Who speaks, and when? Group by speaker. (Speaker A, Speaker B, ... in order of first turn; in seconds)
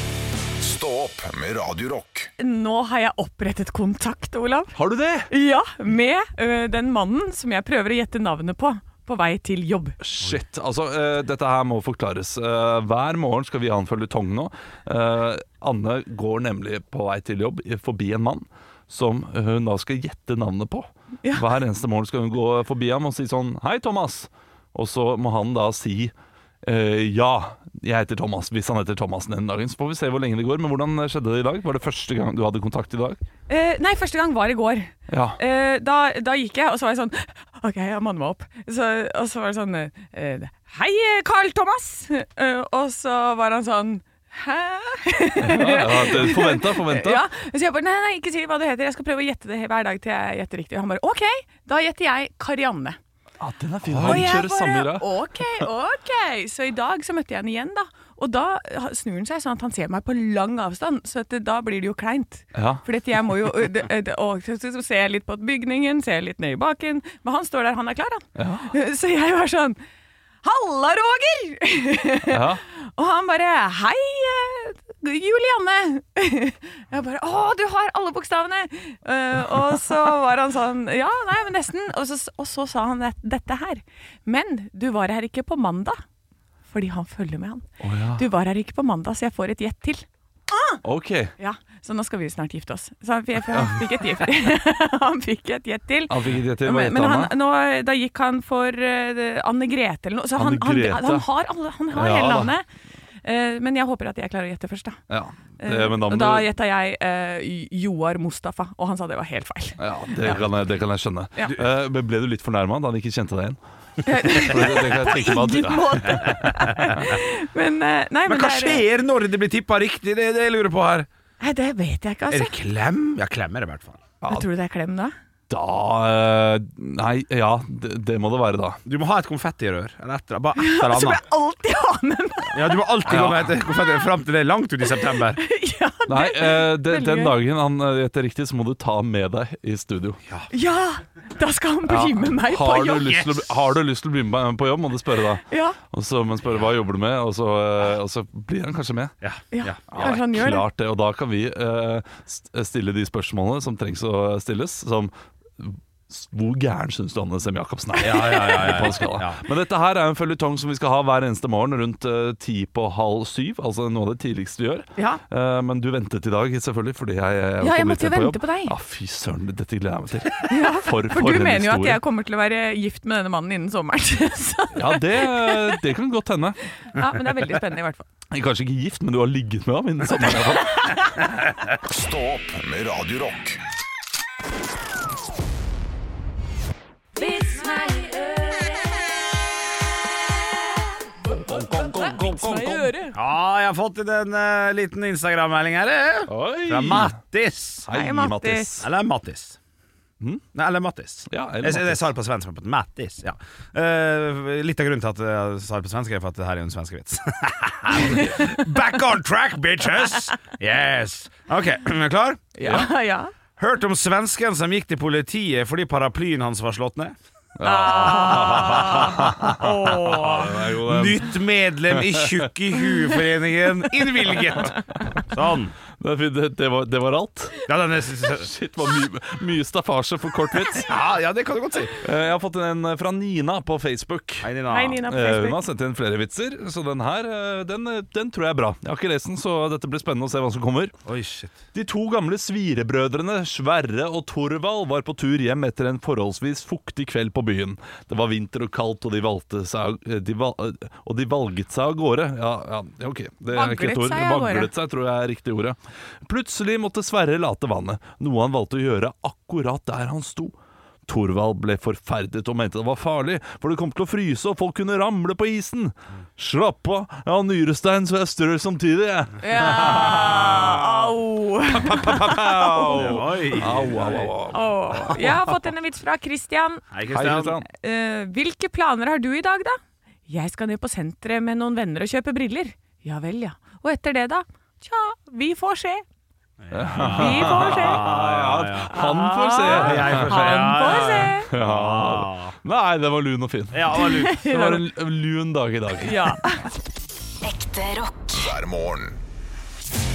Speaker A: 0.6-2.3, 181.7-183.6, 297.4-299.2
Speaker B: 2.4-4.7, 5.3-10.0, 33.5-53.0, 54.0-69.8, 70.4-86.0, 86.7-90.8, 91.4-102.7, 103.2-105.0, 105.6-110.5, 114.0-118.8, 121.4-122.5, 124.3-125.1, 130.6-132.8, 135.3-137.4, 140.5-143.2, 145.5-145.8, 149.5-150.7, 158.0-158.9, 167.6-168.7, 170.5-175.8, 176.8-178.1, 180.1-181.2, 187.2-189.0, 191.3-193.2, 197.9-198.7, 212.6-213.3, 217.6-220.6, 234.7-235.6, 253.5-254.7, 269.4-273.2, 274.5-276.9, 277.7-286.1, 287.0-288.1, 288.9-291.5, 293.9-294.8, 296.0-296.7
Speaker C: 4.8-5.3, 10.0-33.2, 35.1-35.4, 45.4-47.2, 53.4-55.1, 62.5-62.9, 68.4-68.7, 72.3-72.6, 87.8-88.2, 90.8-91.3, 93.5-94.0, 96.1-97.3, 100.3-101.2, 101.9-102.5, 105.1-106.5, 109.8-113.6, 114.1-116.4, 124.2-124.5, 125.5-128.8, 133.1-133.5, 136.1-140.2, 141.9-149.1, 149.9-172.0, 174.7-176.6, 178.3-181.1, 191.3-192.9, 196.3-197.2, 197.9-198.9, 201.3-202.1, 212.6-212.9, 217.6-221.3, 226.0-227.7, 228.2-230.9, 232.0-240.9, 241.7-260.6, 261.1-271.0, 271.7-275.4, 277.1-277.7, 286.7-296.4
Speaker D: 53.9-54.4, 116.3-117.0, 118.3-121.1, 122.3-124.0, 128.9-131.2, 132.5-135.4, 149.2-150.1, 158.0-159.4, 193.1-197.9, 198.8-199.6, 200.6-212.8, 213.6-217.2, 218.2-219.4, 220.8-225.8, 227.7-228.5, 230.8-232.0, 234.4-235.0, 241.1-241.6, 272.9-274.3, 274.9-275.4, 276.9-277.6, 286.6-289.0, 289.7-292.6, 293.7-294.4